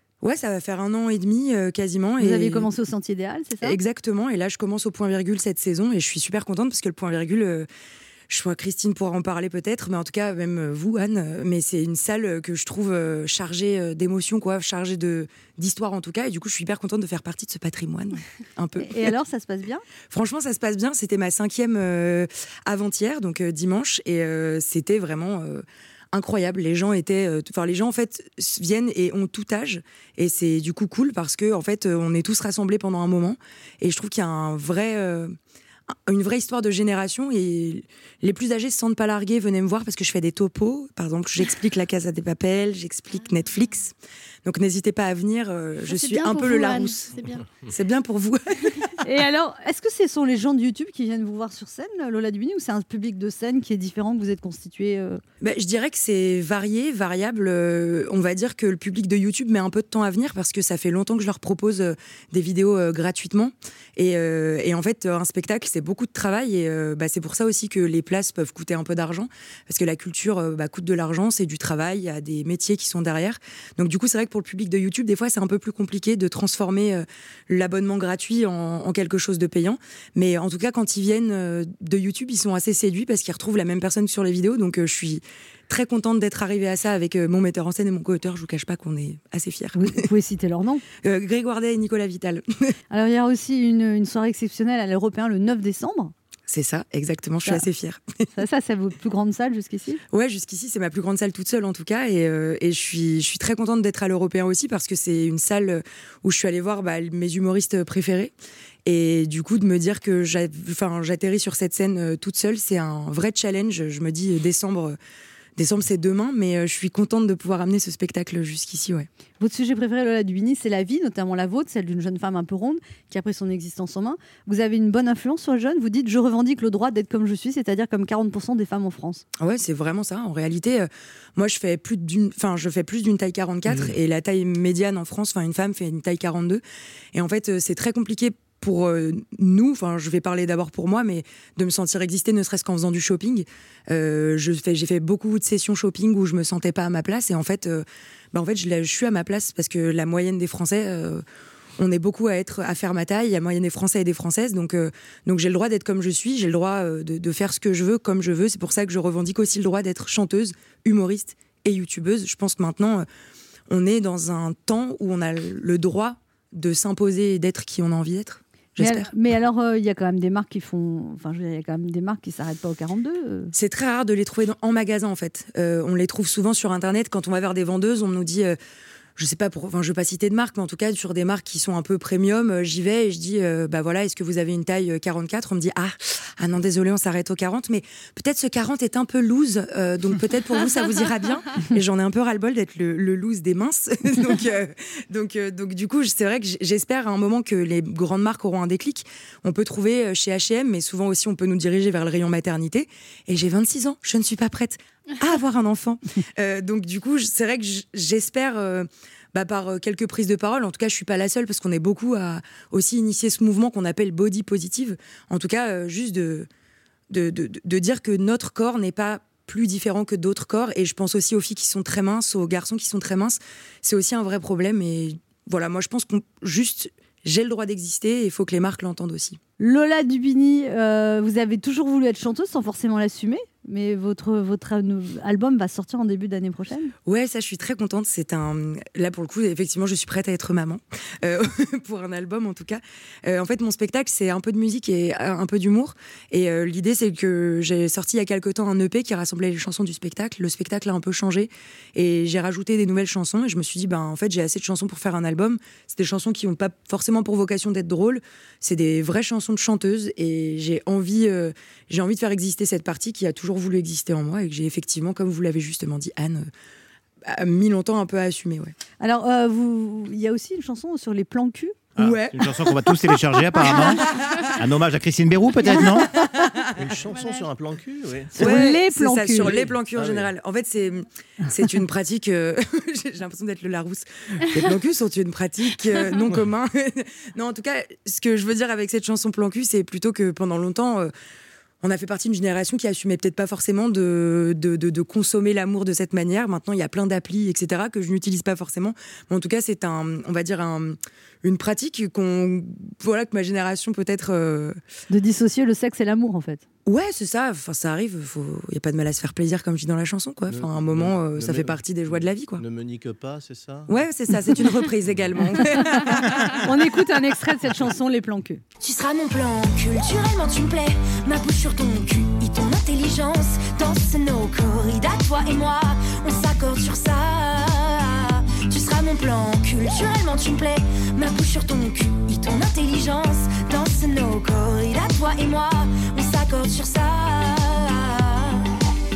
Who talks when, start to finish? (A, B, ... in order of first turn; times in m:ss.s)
0:00.2-0:02.7 A
0:02.2-0:03.8 B
0:03.6-0:07.7 A
0:08.3-0:19.1 A
0:18.8-0:19.8 B
0:20.1-0:35.4 A
0:36.1-0:43.9 A
0:44.4-0:47.1 A
0:45.9-0:47.4 C
0:47.7-0:49.0 A
0:49.0-0:55.2 B
0:55.4-1:30.0 A
1:29.8-1:30.8 B
1:31.0-1:32.4 A
1:32.9-1:36.1 B
1:36.5-1:38.3 A
1:38.4-1:40.0 B
1:40.1-1:48.3 A
1:48.8-1:55.0 A
1:55.6-1:59.1 A
1:59.4-2:09.2 B
2:09.4-2:16.6 A
2:17.1-2:31.2 A
2:31.8-2:43.1 A
2:43.7-2:49.1 A
2:48.8-2:53.5 B
2:53.5-2:58.6 A
2:59.2-3:36.5 A
3:37.1-3:49.4 A
3:49.6-3:56.9 B
3:57.1-4:26.5 A
4:27.2-4:28.7 A
4:29.0-4:31.8 B
4:32.0-4:34.5 A
4:32.0-4:36.1 D
4:35.7-4:36.7 A
4:36.8-4:38.4 E
4:37.1-4:37.5 C
4:38.4-4:39.7 B
4:38.4-4:51.1 A
4:39.9-4:40.3 E
4:51.8-5:04.8 A
5:05.1-5:06.6 B
5:06.9-5:12.6 A
5:10.5-5:13.9 E
5:13.9-5:16.6 A
5:16.4-5:18.6 B
5:18.8-5:38.8 F